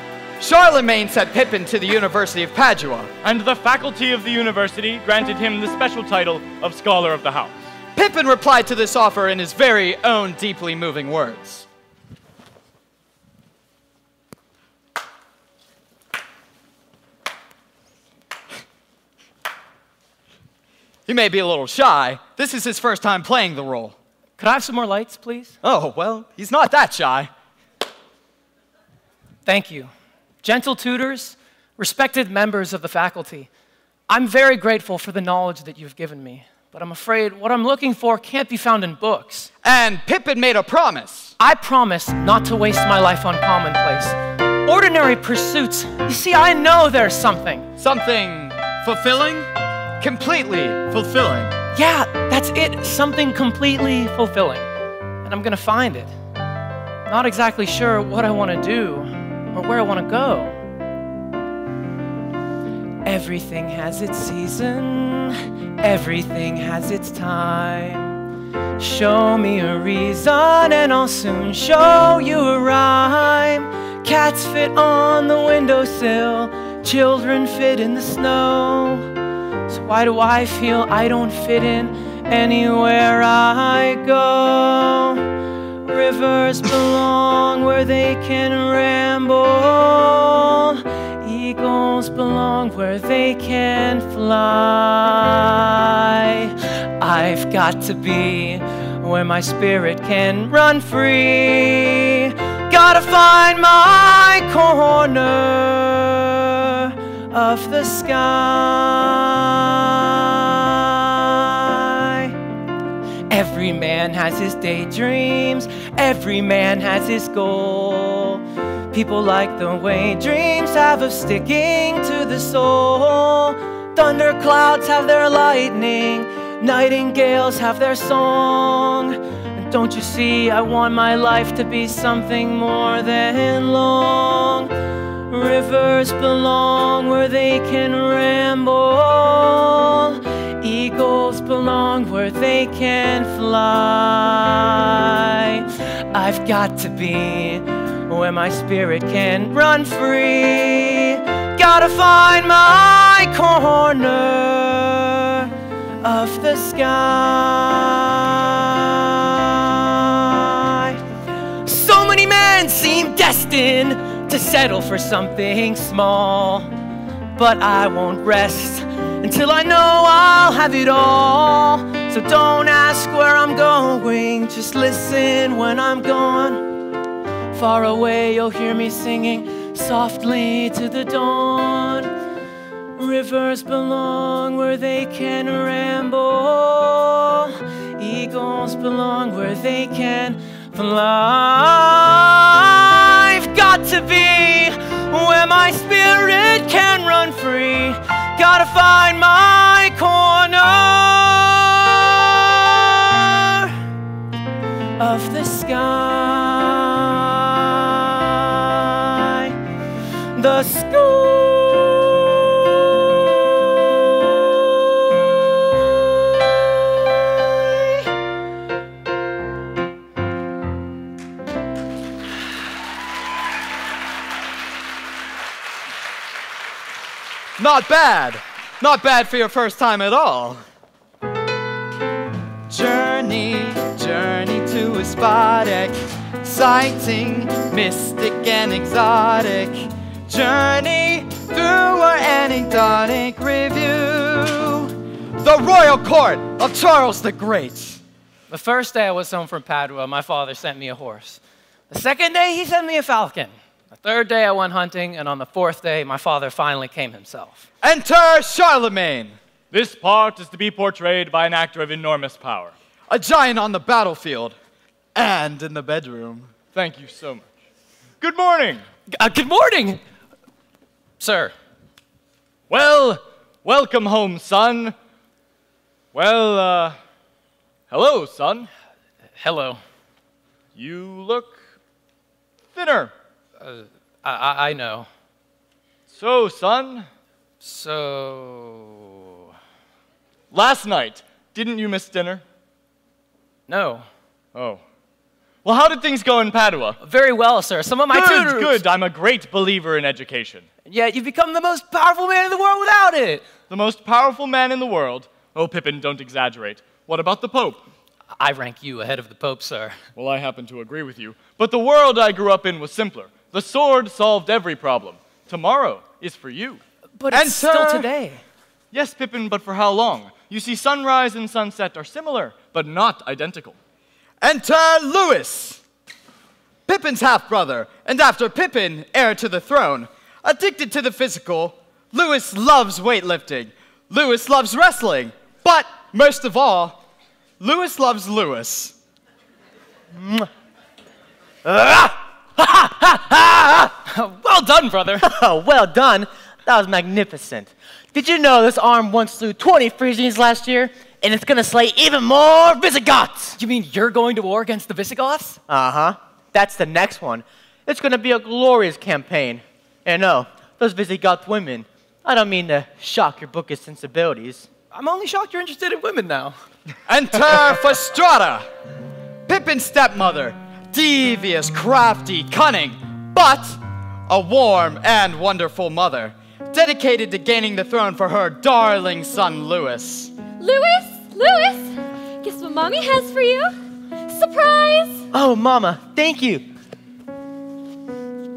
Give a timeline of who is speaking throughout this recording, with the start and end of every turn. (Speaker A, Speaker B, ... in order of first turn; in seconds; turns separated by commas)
Speaker A: 0.4-3.1, Speaker B: 3.2-7.7, Speaker A: 7.9-11.7, Speaker A: 21.1-23.9, Speaker C: 24.4-25.6, Speaker A: 25.6-27.3, Speaker C: 29.4-29.9, Speaker C: 30.4-33.5, Speaker C: 34.1-39.5, Speaker A: 39.6-41.3, Speaker C: 41.4-47.7, Speaker A: 47.8-51.5, Speaker C: 51.7-54.7, Speaker C: 55.2-56.1, Speaker C: 57.1-60.5, Speaker C: 63.0-68.2, Speaker C: 68.8-79.1, Speaker C: 79.7-85.2, Speaker C: 85.8-112.3, Speaker C: 113.3-134.7, Speaker C: 135.3-155.5, Speaker C: 156.0-161.0, Speaker C: 161.6-166.7, Speaker C: 167.3-176.7, Speaker C: 177.5-182.1, Speaker C: 183.0-203.7, Speaker C: 205.0-209.5, Speaker C: 210.3-213.1, Speaker A: 227.6-230.6, Speaker A: 232.7-248.0, Speaker C: 248.5-257.7, Speaker A: 257.8-259.3, Speaker B: 259.7-262.7, Speaker A: 263.1-264.6, Speaker A: 265.1-266.5, Speaker B: 266.7-267.4, Speaker B: 268.2-268.8, Speaker C: 269.1-270.0, Speaker C: 271.2-271.5, Speaker B: 272.7-274.9, Speaker B: 276.1-277.0, Speaker B: 277.9-278.7, Speaker C: 279.4-279.8, Speaker B: 280.7-281.6, Speaker B: 282.7-283.1, Speaker C: 283.6-285.1, Speaker B: 286.1-287.1, Speaker C: 287.6-289.1, Speaker B: 290.5-292.4, Speaker C: 293.7-294.1, Speaker B: 294.5-294.8, Speaker B: 295.6-297.0, Speaker C: 297.0-298.8, Speaker B: 298.1-300.6, Speaker C: 300.9-303.4, Speaker B: 303.7-307.8, Speaker C: 308.4-310.0, Speaker B: 310.1-316.8, Speaker C: 317.2-318.4, Speaker A: 317.3-318.1, Speaker B: 318.9-323.8, Speaker A: 324.4-325.8, Speaker A: 326.9-337.0, Speaker A: 337.6-338.9, Speaker D: 341.6-343.9, Speaker C: 344.0-345.3, Speaker D: 345.2-353.6, Speaker C: 353.6-355.6, Speaker D: 355.7-364.7, Speaker C: 364.9-366.6, Speaker A: 367.1-368.7, Speaker A: 369.5-380.3, Speaker E: 380.6-385.2, Speaker D: 385.3-386.6